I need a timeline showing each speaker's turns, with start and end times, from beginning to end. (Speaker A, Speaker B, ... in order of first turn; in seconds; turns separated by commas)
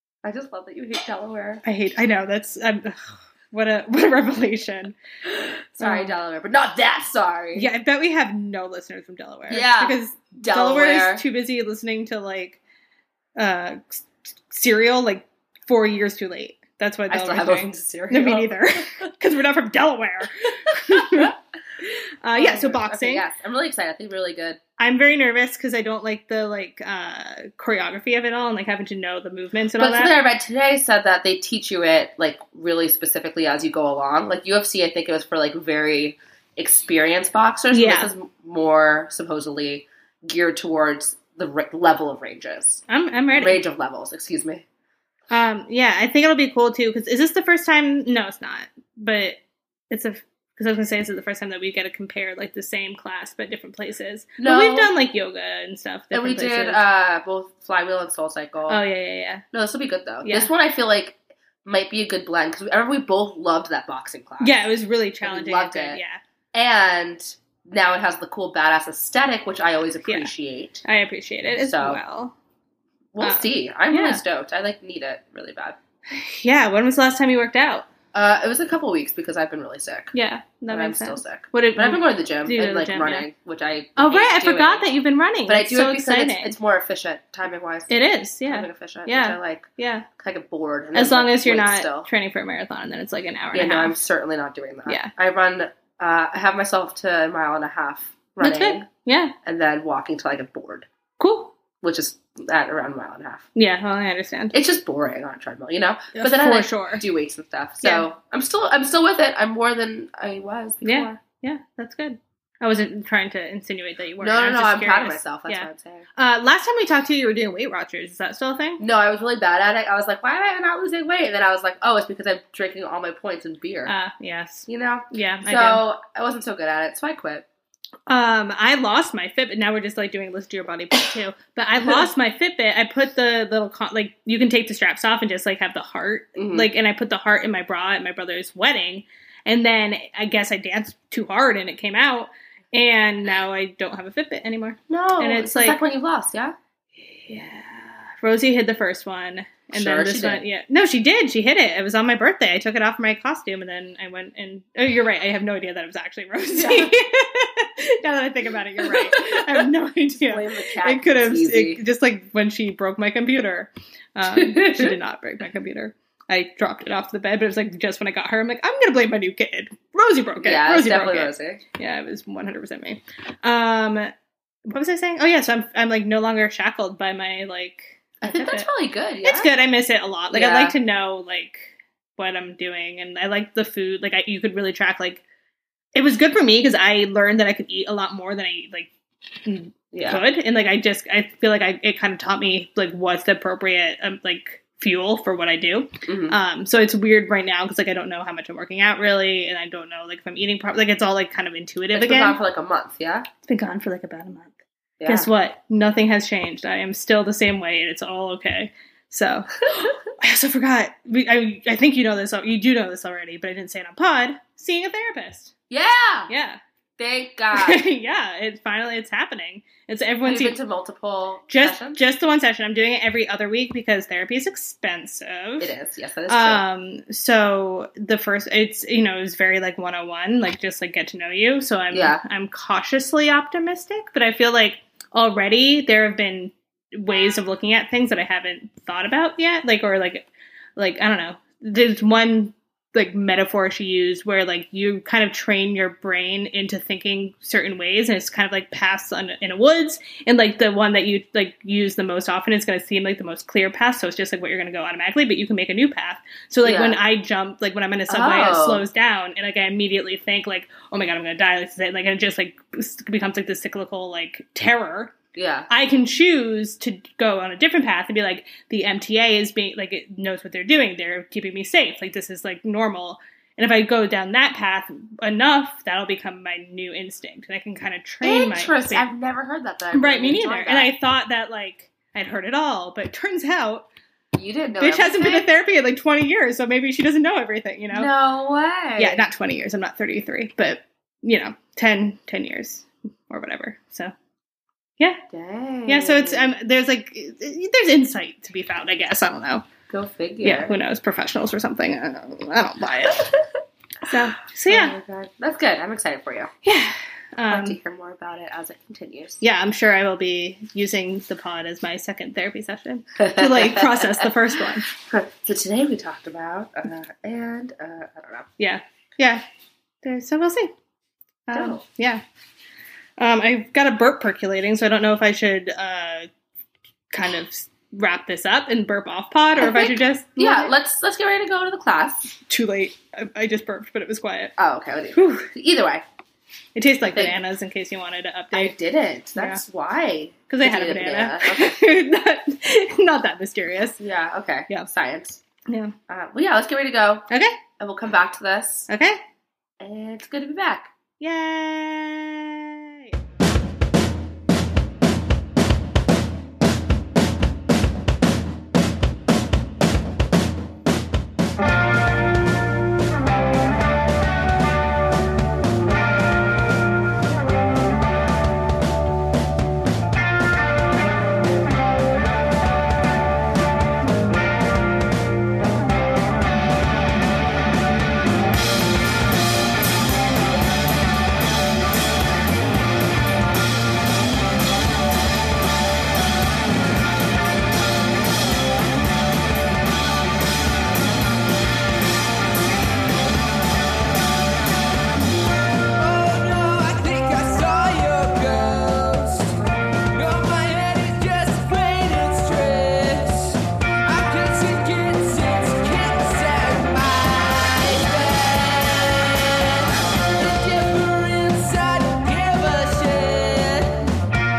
Speaker A: 0.2-1.6, Speaker B: 1.6-5.0, Speaker A: 5.2-7.7, Speaker B: 5.8-6.2, Speaker B: 7.5-12.6, Speaker A: 9.5-11.2, Speaker B: 13.4-21.4, Speaker A: 17.1-19.1, Speaker A: 20.9-21.3, Speaker B: 21.9-23.2, Speaker A: 22.4-24.6, Speaker B: 24.8-30.1, Speaker A: 29.8-44.6, Speaker B: 37.7-38.1, Speaker B: 42.9-43.6, Speaker B: 45.3-49.4, Speaker B: 49.9-56.8, Speaker A: 54.4-54.9, Speaker A: 56.1-58.8, Speaker B: 58.7-59.4, Speaker A: 59.5-64.6, Speaker B: 60.2-60.5, Speaker B: 64.4-66.2, Speaker A: 65.2-66.0, Speaker A: 66.5-70.8, Speaker B: 70.0-70.3, Speaker B: 70.8-72.3, Speaker A: 71.5-72.0, Speaker A: 73.1-75.8, Speaker B: 73.2-74.2, Speaker B: 76.1-77.9, Speaker A: 78.1-80.1, Speaker B: 80.1-83.3, Speaker A: 80.7-84.9, Speaker B: 84.0-86.5, Speaker A: 85.5-88.0, Speaker B: 87.9-90.1, Speaker A: 88.5-92.1, Speaker B: 90.9-94.0, Speaker A: 93.5-98.9, Speaker B: 98.4-99.3, Speaker A: 99.5-100.9, Speaker B: 101.2-101.6, Speaker A: 101.8-103.5, Speaker B: 103.6-104.5, Speaker A: 104.5-111.2, Speaker B: 106.2-107.0, Speaker B: 110.8-118.8, Speaker A: 114.2-116.1, Speaker A: 118.8-123.9, Speaker B: 123.9-125.8, Speaker A: 124.7-127.5, Speaker B: 128.1-145.8, Speaker A: 136.4-136.7, Speaker A: 144.9-146.6, Speaker B: 147.0-174.1, Speaker A: 149.7-150.4, Speaker A: 156.5-156.9, Speaker A: 158.8-159.7, Speaker A: 160.2-161.8, Speaker A: 164.3-164.9, Speaker A: 170.4-171.6, Speaker B: 174.7-178.7, Speaker A: 178.2-179.5, Speaker B: 179.2-185.2, Speaker A: 180.3-180.8, Speaker B: 185.9-188.9, Speaker B: 189.4-202.4, Speaker A: 189.9-190.2, Speaker A: 196.1-196.4, Speaker A: 201.9-203.3, Speaker B: 203.4-215.5, Speaker A: 205.0-205.3, Speaker A: 215.7-216.3, Speaker B: 216.3-216.6, Speaker A: 217.0-217.8, Speaker B: 217.5-220.6, Speaker A: 220.2-222.0, Speaker B: 221.5-225.7, Speaker A: 225.6-226.6, Speaker B: 226.3-265.2, Speaker A: 231.9-232.2, Speaker A: 256.6-257.0, Speaker A: 258.1-258.9, Speaker A: 265.4-265.7, Speaker B: 265.7-279.1, Speaker A: 278.2-280.9, Speaker B: 279.9-283.9, Speaker A: 284.3-285.5, Speaker B: 284.8-288.1, Speaker A: 287.9-289.2, Speaker B: 289.0-294.1, Speaker A: 295.3-296.5, Speaker B: 295.9-299.7, Speaker A: 299.9-300.8, Speaker B: 300.4-303.4, Speaker B: 304.0-305.0, Speaker A: 304.7-306.5, Speaker B: 306.6-307.8, Speaker A: 307.5-309.4, Speaker B: 309.4-314.9, Speaker A: 313.2-314.3, Speaker A: 315.0-318.5, Speaker B: 318.6-319.4, Speaker B: 320.0-320.7, Speaker B: 321.5-322.2, Speaker A: 321.5-321.8, Speaker B: 323.2-326.3, Speaker B: 327.1-330.7, Speaker A: 329.6-332.4, Speaker B: 332.5-334.5, Speaker A: 334.6-336.1, Speaker B: 335.1-335.5, Speaker B: 336.8-338.8, Speaker A: 337.1-337.4, Speaker A: 338.5-341.8, Speaker B: 339.4-339.6, Speaker B: 340.5-344.0, Speaker A: 344.0-345.4, Speaker B: 345.7-345.9, Speaker A: 346.1-348.9, Speaker B: 347.3-347.6, Speaker B: 348.9-349.2, Speaker A: 349.8-350.9, Speaker B: 351.2-353.2, Speaker C: 395.9-399.6, Speaker C: 400.1-414.1